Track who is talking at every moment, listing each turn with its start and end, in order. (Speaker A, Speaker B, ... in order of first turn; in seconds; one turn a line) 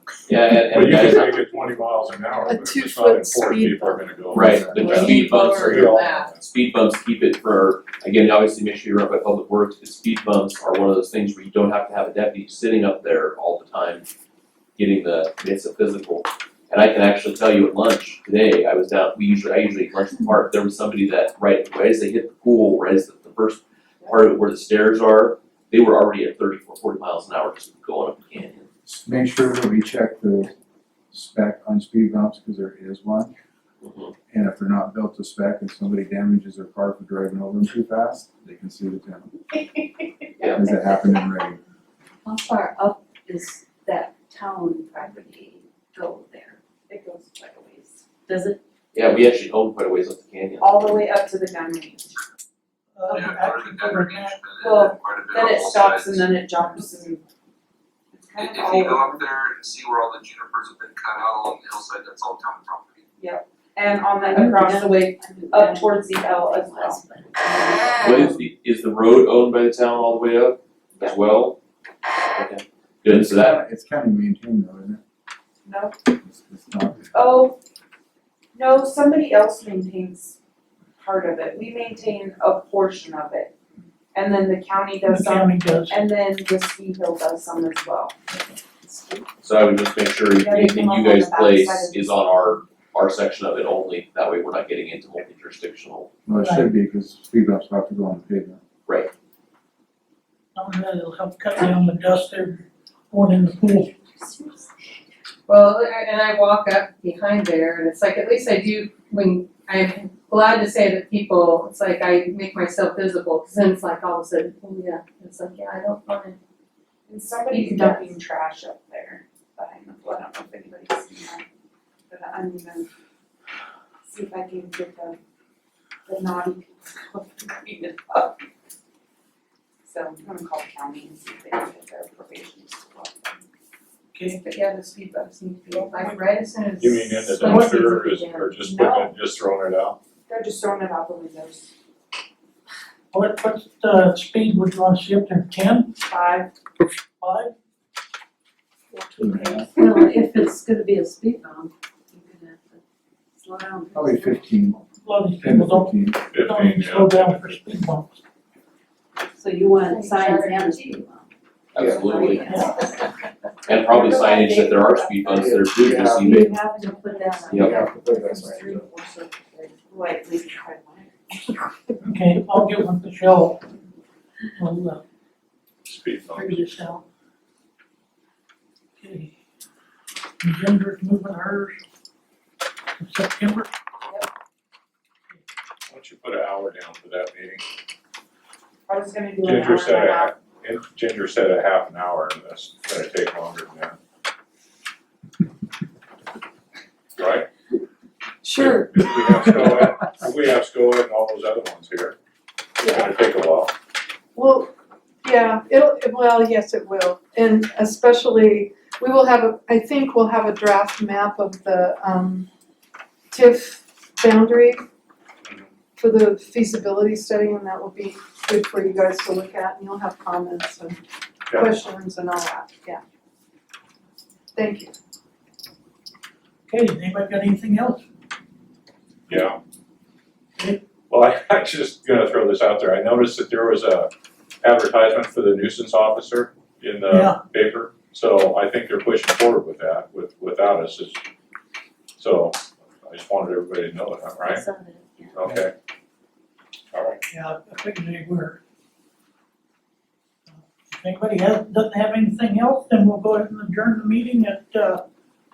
Speaker A: 0.3-1.5
Speaker B: 0.6-6.4
Speaker C: 2.5-5.0
Speaker A: 4.3-14.1
Speaker D: 4.4-4.8
Speaker E: 4.8-6.3
Speaker A: 14.8-28.7
Speaker D: 28.8-30.5
Speaker D: 31.1-33.3
Speaker A: 33.8-34.1
Speaker D: 34.3-39.3
Speaker A: 40.4-40.6
Speaker D: 40.4-41.6
Speaker F: 42.2-46.6
Speaker G: 46.9-48.0
Speaker F: 48.2-48.6
Speaker A: 48.9-50.9
Speaker G: 50.6-52.1
Speaker H: 52.9-54.4
Speaker I: 53.1-56.4
Speaker G: 54.6-57.2
Speaker G: 58.1-59.2
Speaker I: 58.4-63.1
Speaker G: 63.2-67.0
Speaker F: 64.2-68.3
Speaker C: 64.3-64.9
Speaker C: 65.5-67.0
Speaker A: 68.0-71.6
Speaker A: 72.3-73.6
Speaker D: 73.1-75.0
Speaker G: 75.6-76.0
Speaker D: 76.2-77.1
Speaker G: 77.1-77.5
Speaker G: 78.5-80.3
Speaker G: 81.0-83.5
Speaker G: 84.1-85.2
Speaker H: 85.0-86.0
Speaker C: 85.2-85.4
Speaker G: 85.9-88.2
Speaker G: 88.8-89.2
Speaker A: 89.4-96.1
Speaker G: 90.4-92.0
Speaker D: 96.2-98.6
Speaker H: 96.4-96.7
Speaker H: 100.5-103.9
Speaker E: 105.5-116.4
Speaker G: 117.1-121.4
Speaker C: 117.5-118.1
Speaker E: 117.5-118.1
Speaker G: 122.1-122.9
Speaker G: 124.1-125.2
Speaker G: 126.1-128.3
Speaker G: 129.8-133.4
Speaker H: 134.1-134.4
Speaker E: 134.2-138.6
Speaker H: 135.7-136.2
Speaker B: 136.8-140.0
Speaker H: 137.4-137.9
Speaker G: 138.7-139.0
Speaker G: 140.3-141.7
Speaker H: 143.1-146.0
Speaker G: 146.1-146.5
Speaker H: 147.2-147.5
Speaker D: 149.2-149.7
Speaker F: 149.4-152.8
Speaker F: 153.4-154.8
Speaker D: 153.9-154.8
Speaker H: 155.0-158.2
Speaker D: 155.4-156.2
Speaker B: 156.3-157.7
Speaker F: 159.3-161.2
Speaker E: 159.9-160.6
Speaker A: 161.7-162.6
Speaker F: 162.0-162.8
Speaker H: 162.4-162.7
Speaker A: 163.7-166.6
Speaker F: 163.9-164.5
Speaker G: 164.3-165.0
Speaker D: 165.2-166.6
Speaker F: 166.2-169.8
Speaker A: 167.5-167.8
Speaker D: 167.6-168.9
Speaker G: 169.8-171.1
Speaker H: 171.3-173.6
Speaker H: 174.6-175.0
Speaker B: 175.8-176.6
Speaker H: 176.3-177.0
Speaker F: 176.7-177.0
Speaker H: 179.0-179.3
Speaker H: 180.4-181.8
Speaker H: 183.0-183.7
Speaker B: 185.9-187.6
Speaker G: 188.9-189.9
Speaker B: 189.4-194.0
Speaker C: 189.5-190.2
Speaker B: 197.2-197.4
Speaker C: 198.4-199.6
Speaker B: 198.5-202.2
Speaker B: 202.8-203.7
Speaker C: 204.3-212.5
Speaker C: 213.3-214.8
Speaker C: 216.0-221.0
Speaker B: 221.5-221.7
Speaker C: 221.5-223.0
Speaker C: 224.5-224.9
Speaker H: 226.7-228.0
Speaker B: 229.3-229.6
Speaker B: 231.1-234.1
Speaker B: 234.6-241.2
Speaker H: 237.1-237.4
Speaker B: 242.2-244.6
Speaker F: 244.4-245.3
Speaker B: 245.3-245.7
Speaker B: 246.9-247.2
Speaker H: 247.3-248.6
Speaker H: 250.5-255.0